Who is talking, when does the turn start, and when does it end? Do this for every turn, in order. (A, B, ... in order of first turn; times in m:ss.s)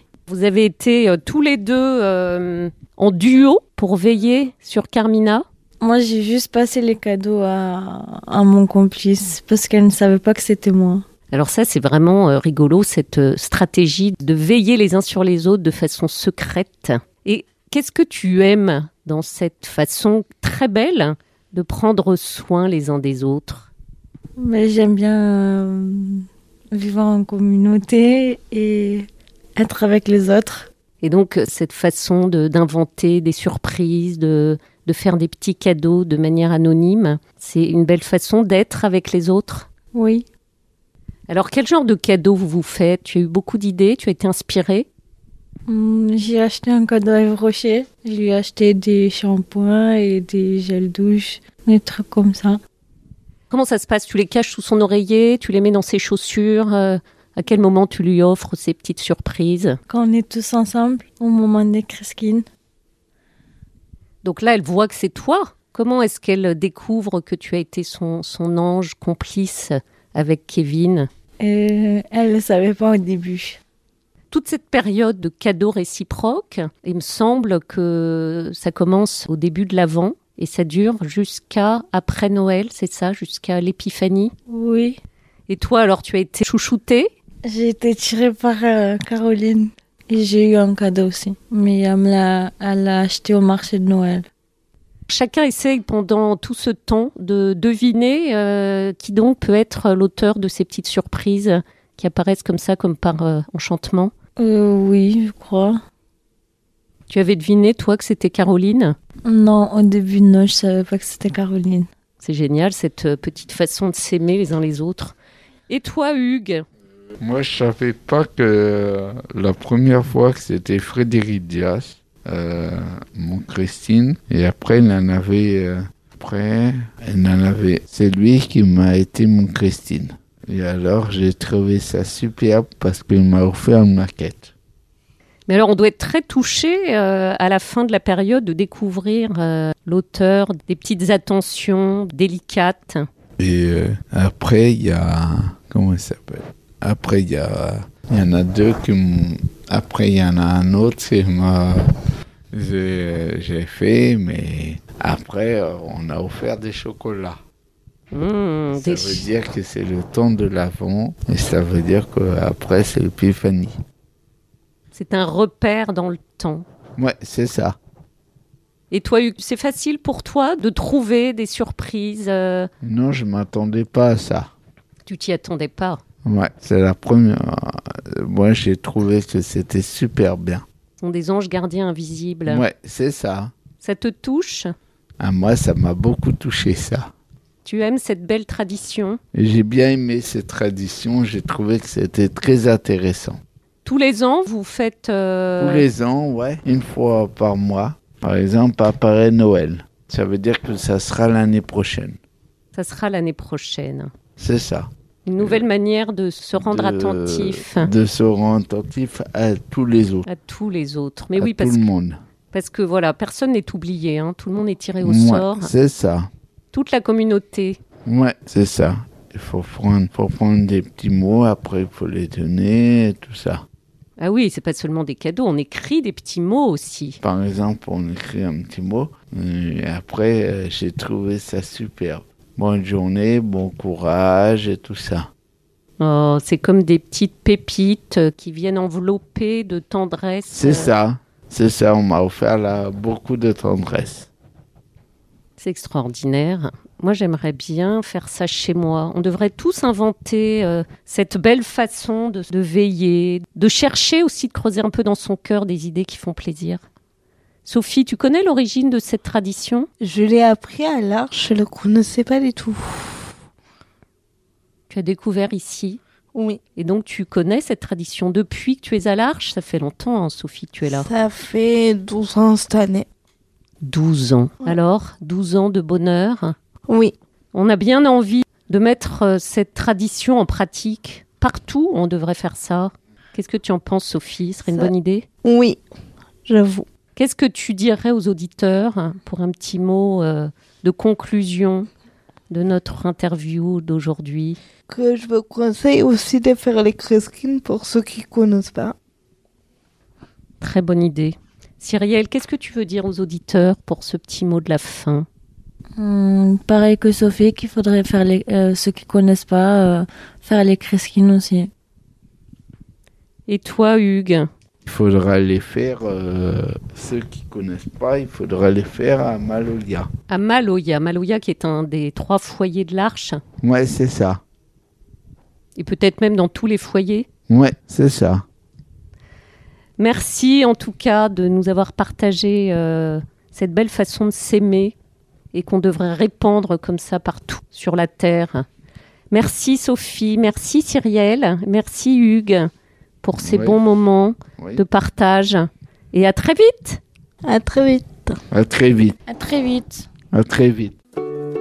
0:00.3-0:05.4 A
0:05.8-0:11.0 B
0:11.3-0:23.7 A
0:24.4-0:30.7 B
0:31.0-0:39.7 A
0:39.9-0:40.3 B
0:41.3-0:44.9 A
0:45.7-0:52.6 B
0:53.5-0:59.8 A
0:59.9-1:02.5 B
1:04.2-1:11.1 A
1:11.4-1:13.6 B
1:14.3-1:24.3 A
1:24.5-1:25.0 B
1:25.5-1:27.1 A
1:27.4-1:34.3 B
1:35.1-1:44.1 A
1:44.4-1:45.8 B
1:47.1-1:49.0 A
1:49.2-1:51.9 B
1:52.2-1:55.2 A
1:55.7-1:56.6 A
1:57.2-2:14.5 C
2:15.5-2:23.1 A
2:23.4-2:31.8 C
2:32.5-2:37.4 C
2:38.1-2:39.3 A
2:38.7-2:43.8 C
2:44.9-2:46.7 A
2:47.0-2:47.8 C
2:48.9-2:52.7 A
2:52.8-2:54.5 C
2:55.0-2:56.0 A
2:56.2-3:00.6 C
3:01.0-3:02.6 A
3:02.5-3:03.5 C
3:03.8-3:04.7 A
3:05.2-3:07.1 C
3:07.6-3:09.2 A
3:09.3-3:13.4 C
3:13.8-3:15.9 A
3:15.6-3:22.2 C
3:22.7-3:24.1 A
3:24.4-3:24.9 C
3:25.3-3:27.9 A
3:25.4-3:25.7 C
3:26.6-3:30.2 C
3:30.3-3:31.8 A
3:31.4-3:32.2 C
3:32.5-3:35.7 A
3:35.0-3:36.3 C
3:36.7-3:37.8 A
3:38.1-3:43.6 C
3:44.2-3:47.2 A
3:47.2-3:55.3 C
3:56.0-4:00.9 A
4:00.5-4:04.3 C
4:05.6-4:16.8 A
4:17.6-4:19.9 A
4:20.0-4:23.3 D
4:24.9-4:26.0 A
4:26.3-4:26.6 D
4:26.8-4:31.1 A
4:30.9-4:33.1 D
4:33.8-4:36.6 A
4:36.9-4:37.2 D
4:37.5-4:45.2 A
4:45.4-4:45.8 D
4:46.5-4:46.9 D
4:47.2-4:51.9 A
4:52.5-4:54.6 A
4:54.9-4:59.0 D
5:00.6-5:05.3 A
5:06.0-5:11.7 B
5:13.5-5:14.5 A
5:14.8-5:20.1 C
5:20.3-5:23.4 A
5:23.6-5:24.4 C
5:25.8-5:27.3 A
5:27.5-5:28.4 C
5:30.0-5:35.0 A
5:35.5-5:38.7 A
5:39.3-5:42.7 A
5:43.2-5:47.0 A
5:43.4-5:43.8 C
5:47.4-5:48.4 D
5:48.5-5:49.2 C
5:49.3-5:50.1 B
5:50.3-5:51.0 C